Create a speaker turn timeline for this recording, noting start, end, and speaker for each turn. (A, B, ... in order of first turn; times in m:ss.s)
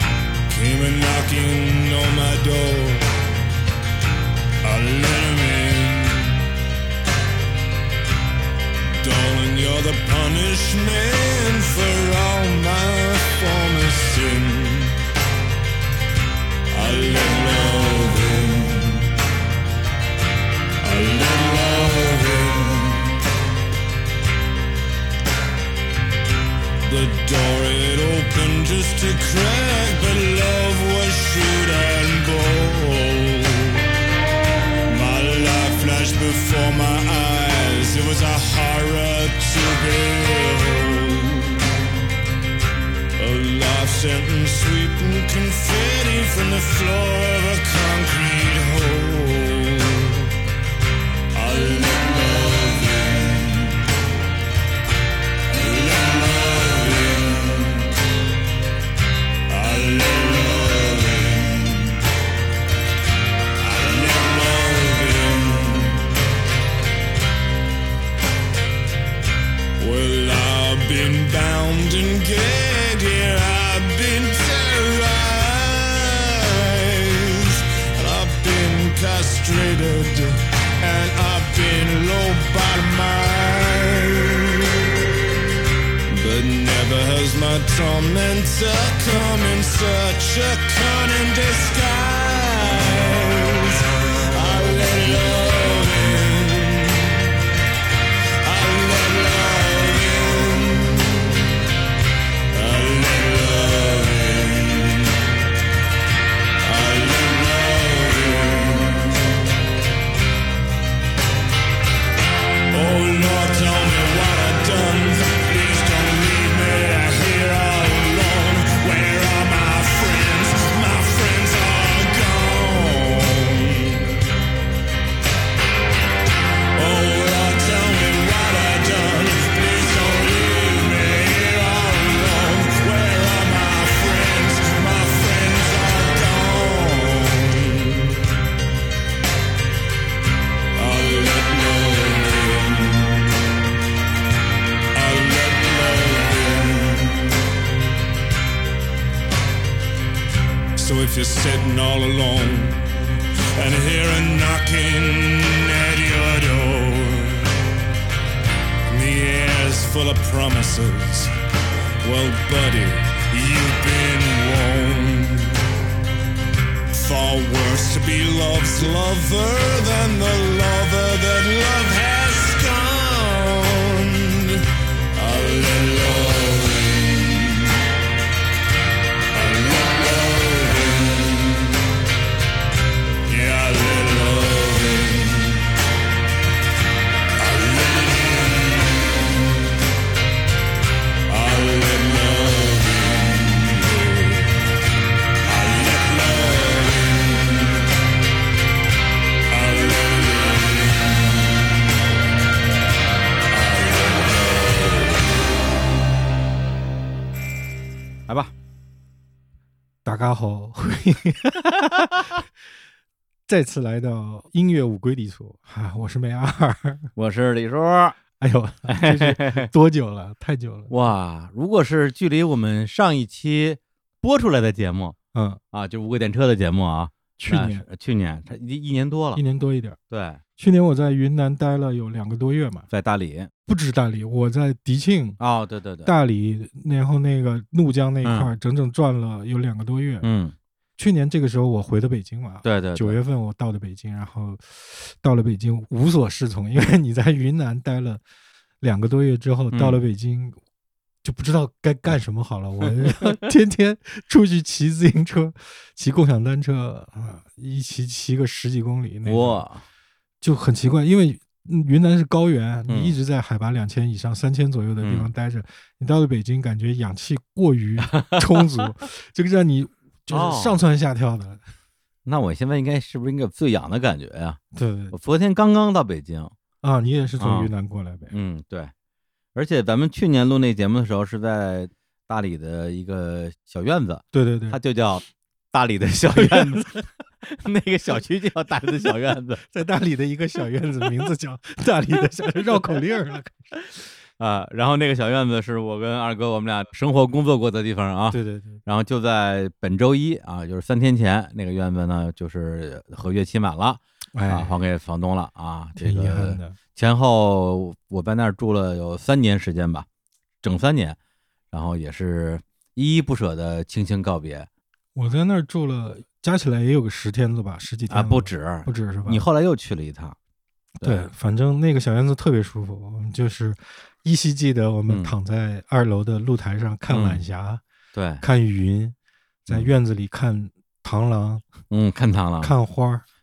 0:00.5-0:03.1 A
0:04.6-0:06.4 A
0:09.0-0:15.0 A
0:16.7-0:19.1 A
0:20.8-0:23.2 A
0:26.8-0:33.8 A
0:34.9-0:41.6 A
0:43.2-0:50.3 A
0:51.3-0:53.9 A
0:55.5-0:57.9 A
0:59.5-1:02.0 A
1:03.6-1:06.1 A
1:09.8-1:24.9 A
1:26.1-1:37.3 A
1:38.4-1:41.4 A
1:42.5-1:45.2 A
1:46.6-1:49.3 A
1:52.7-2:04.2 A
2:06.7-2:18.2 A
2:20.7-2:23.3 A
2:24.9-2:27.3 A
2:30.8-2:32.9 A
2:33.5-2:37.6 A
2:38.9-2:41.3 A
2:42.0-2:45.7 A
2:46.9-2:57.8 A
2:59.3-3:01.8 A
3:03.2-3:05.7 A
3:07.4-3:09.3 A
3:11.3-3:14.5 A
3:15.4-3:17.9 A
3:19.5-3:21.3 A
3:23.5-3:25.3 A
3:30.0-3:32.3 B
3:33.5-3:37.1 B
3:37.2-3:38.2 C
3:38.4-3:40.9 B
3:38.8-3:39.7 C
3:40.9-3:45.2 C
3:45.3-3:45.6 B
3:45.7-3:49.4 C
3:47.4-3:47.8 B
3:49.3-3:50.0 B
3:50.1-3:50.4 C
3:50.6-3:52.9 B
3:52.9-3:53.5 C
3:53.6-3:55.4 B
3:55.4-3:56.1 C
3:56.0-4:00.3 B
3:58.2-3:58.5 C
4:00.2-4:00.5 C
4:01.0-4:08.2 B
4:02.6-4:03.2 C
4:08.8-4:10.6 B
4:09.7-4:10.0 C
4:11.2-4:19.6 B
4:19.2-4:19.8 C
4:20.4-4:31.6 B
4:22.9-4:23.2 C
4:25.0-4:25.3 C
4:28.1-4:28.4 C
4:30.3-4:30.8 C
4:32.2-4:34.6 C
4:34.7-4:35.1 B
4:35.1-4:36.5 C
4:36.8-4:38.3 B
4:37.4-4:37.7 C
4:38.3-4:38.9 C
4:39.5-4:46.9 C
4:44.3-4:44.8 B
4:46.3-4:47.1 B
4:47.4-4:49.6 C
4:49.7-4:53.7 B
4:54.4-5:10.0 C
4:58.3-4:58.8 B
5:04.3-5:04.7 B
5:06.0-5:06.8 B
5:10.6-5:11.2 C
5:11.7-5:14.7 C
5:15.1-5:19.4 B
5:18.1-5:20.4 C
5:21.0-5:21.2 C
5:21.0-5:27.8 B
5:25.1-5:25.3 C
5:27.1-5:27.4 C
5:28.1-5:28.4 C
5:28.4-5:29.1 B
5:29.6-5:31.6 B
5:31.9-5:32.7 C
5:32.6-5:33.2 B